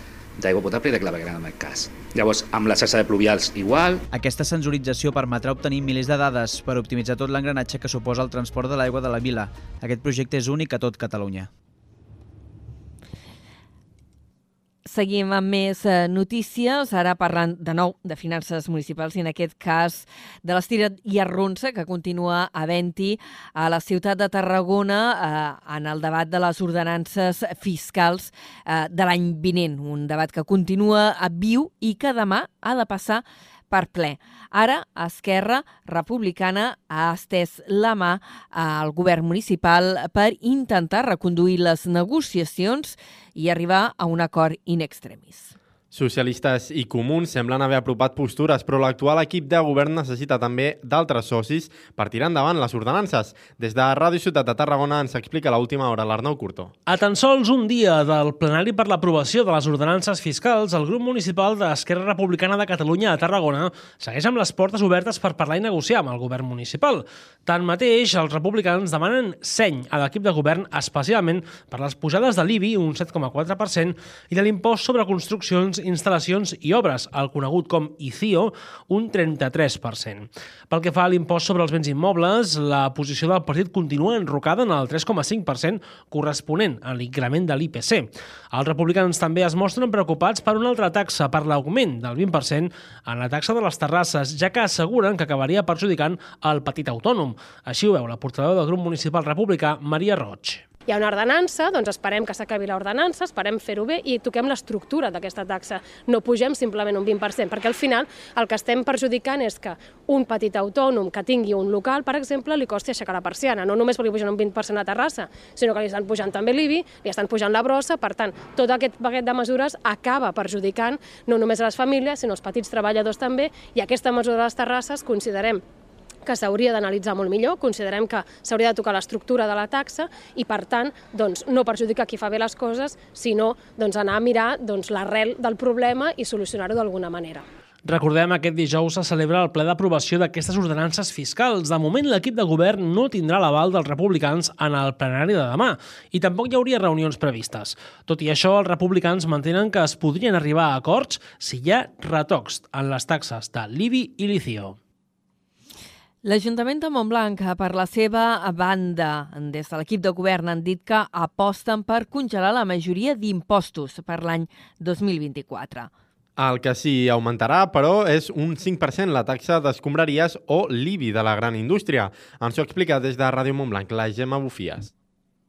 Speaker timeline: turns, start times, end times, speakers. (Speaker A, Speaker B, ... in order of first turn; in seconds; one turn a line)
Speaker A: 0.4-4.0
Speaker B: 4.1-11.5
Speaker C: 14.8-45.5
Speaker D: 45.9-56.7
Speaker E: 56.9-100.6
Speaker F: 100.9-125.6
Speaker F: 126.2-137.4
Speaker E: 137.8-154.8
Speaker C: 156.2-165.9
Speaker D: 166.4-174.9